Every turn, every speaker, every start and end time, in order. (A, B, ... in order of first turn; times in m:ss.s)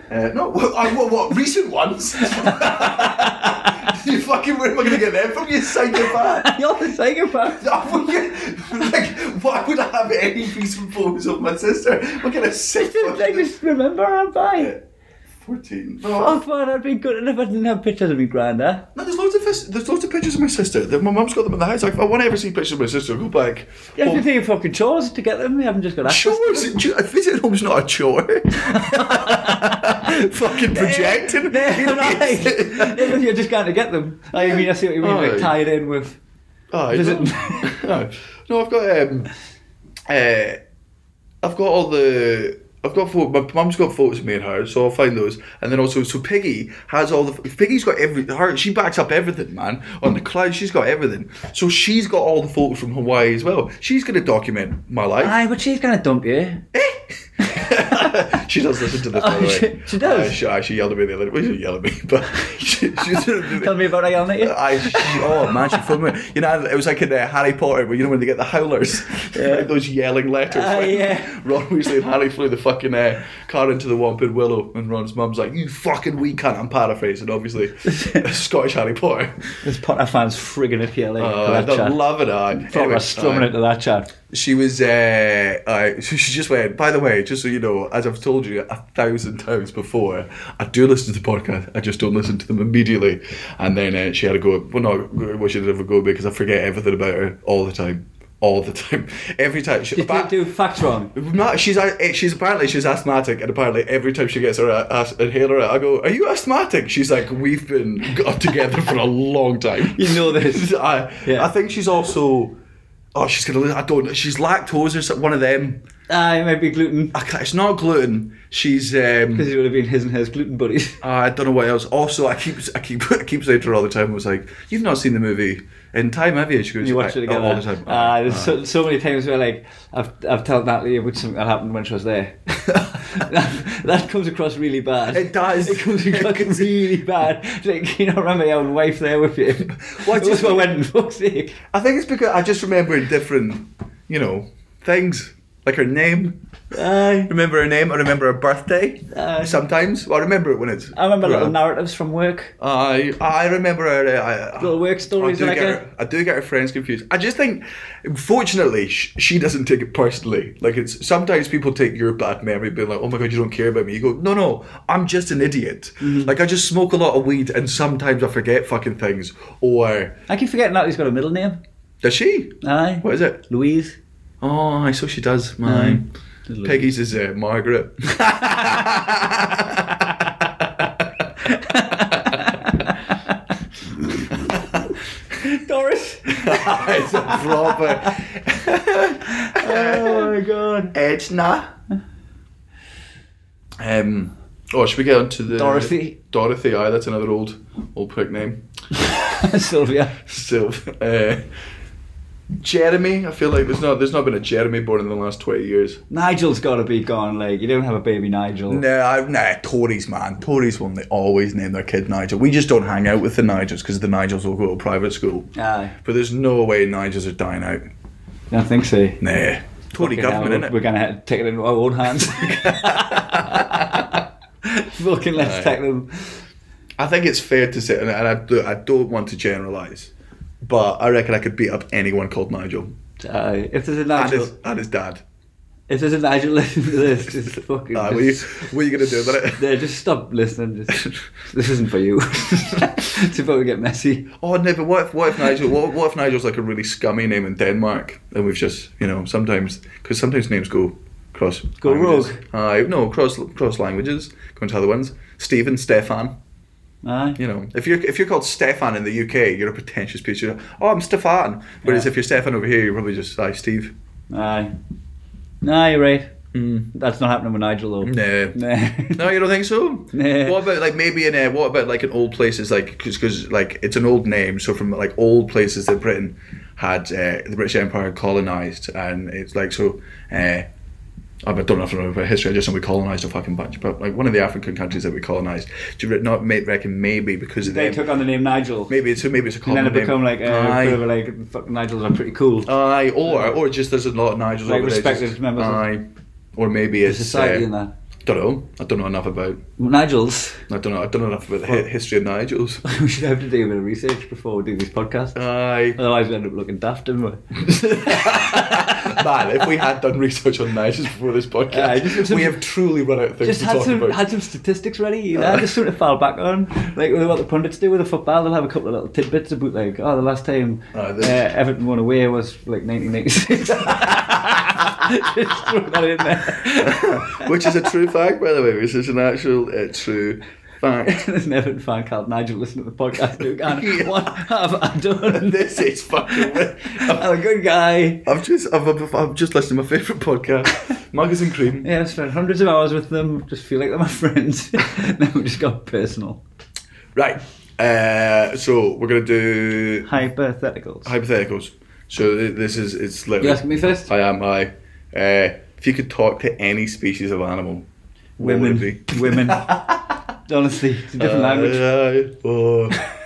0:00.1-0:06.5 A
0:02.4-0:03.6 B
0:06.1-0:07.9 B
0:07.5-0:13.5 A
0:12.8-0:14.7 B
0:14.6-0:14.8 A
0:15.4-0:16.4 A
0:16.1-0:18.9 B
0:19.0-0:24.3 A
0:24.0-0:26.8 B
0:26.0-0:33.2 A
0:28.7-0:36.2 B
0:34.5-0:35.6 A
0:36.7-0:39.3 A
0:36.9-0:37.8 B
0:40.1-0:40.6 A
0:41.4-0:55.4 A
0:55.2-0:56.6 B
0:56.7-1:19.5 A
0:59.1-1:00.4 B
1:03.3-1:05.8 B
1:09.3-1:09.7 B
1:10.5-1:11.4 B
1:17.8-1:18.3 B
1:19.6-1:22.0 B
1:21.2-1:23.6 A
1:22.5-1:24.1 B
1:24.3-1:40.4 A
1:39.9-1:41.1 B
1:41.1-1:52.6 A
1:50.0-1:50.7 B
1:51.2-1:51.5 B
1:53.2-1:55.8 A
1:56.1-1:57.2 B
1:57.1-1:59.5 A
1:59.3-2:01.0 B
2:01.0-2:08.6 A
2:06.8-2:21.6 B
2:15.1-2:16.9 A
2:19.7-2:20.7 A
2:21.7-2:26.4 A
2:26.7-2:27.3 B
2:27.2-2:31.6 A
2:29.1-2:29.6 B
2:31.0-2:32.5 B
2:32.6-2:50.2 A
2:34.6-2:35.8 B
2:46.0-2:46.3 B
2:50.3-2:51.6 B
2:52.0-2:53.4 A
2:52.6-2:54.0 B
2:54.4-2:56.1 A
2:55.6-2:56.8 B
2:56.6-3:02.6 A
3:01.5-3:03.4 B
3:04.1-3:04.6 B
3:05.4-3:08.0 B
3:06.3-3:10.4 A
3:09.3-3:10.9 B
3:10.9-3:11.7 A
3:13.8-3:18.6 A
3:15.5-3:16.2 B
3:19.1-3:20.2 B
3:20.2-3:21.4 A
3:22.6-3:26.0 A
3:26.1-3:28.8 B
3:28.7-3:35.5 A
3:35.6-3:36.0 B
3:36.0-3:37.8 A
3:38.5-3:39.2 B
3:39.2-3:40.8 A
3:40.0-3:46.4 B
3:42.1-3:44.2 A
3:45.4-3:45.8 A
3:47.0-3:50.1 A
3:50.6-3:52.9 A
3:53.2-3:54.5 B
3:54.2-3:55.2 A
3:55.9-3:58.5 B
3:57.9-3:59.7 A
3:59.5-4:04.3 B
4:04.4-4:16.4 A
4:11.8-4:12.4 B
4:17.0-4:17.4 B
4:17.4-4:23.9 A
4:24.3-4:24.7 B
4:25.6-4:26.3 B
4:26.5-4:26.9 A
4:26.9-4:29.2 B
4:28.0-4:28.6 A
4:29.1-4:40.7 A
4:30.1-4:30.6 B
4:41.4-4:48.0 A
4:47.6-4:48.9 B
4:48.9-4:51.0 A
4:49.6-4:52.7 B
4:52.6-4:57.7 A
4:53.3-4:53.5 B
4:54.6-4:55.9 B
4:57.1-4:57.9 B
4:58.2-4:59.6 A
4:59.8-5:00.7 B
5:00.7-5:02.8 A
5:02.8-5:05.4 B
5:05.4-5:06.0 A
5:06.0-5:09.2 B
5:07.6-5:14.2 A
5:11.7-5:12.6 B
5:13.4-5:27.7 B
5:15.4-5:15.7 A
5:20.9-5:21.4 A
5:26.7-5:31.2 A
5:31.0-5:35.8 B
5:33.6-5:34.3 A
5:35.3-5:37.3 A
5:36.3-5:38.3 B
5:38.2-5:41.9 A
5:41.8-5:46.4 B
5:47.2-5:50.1 A
5:50.1-5:51.1 B
5:51.0-5:57.9 A
5:53.4-5:54.1 B
5:58.4-6:00.0 A
5:58.4-5:59.8 B
6:00.5-6:01.8 B
6:01.2-6:03.0 A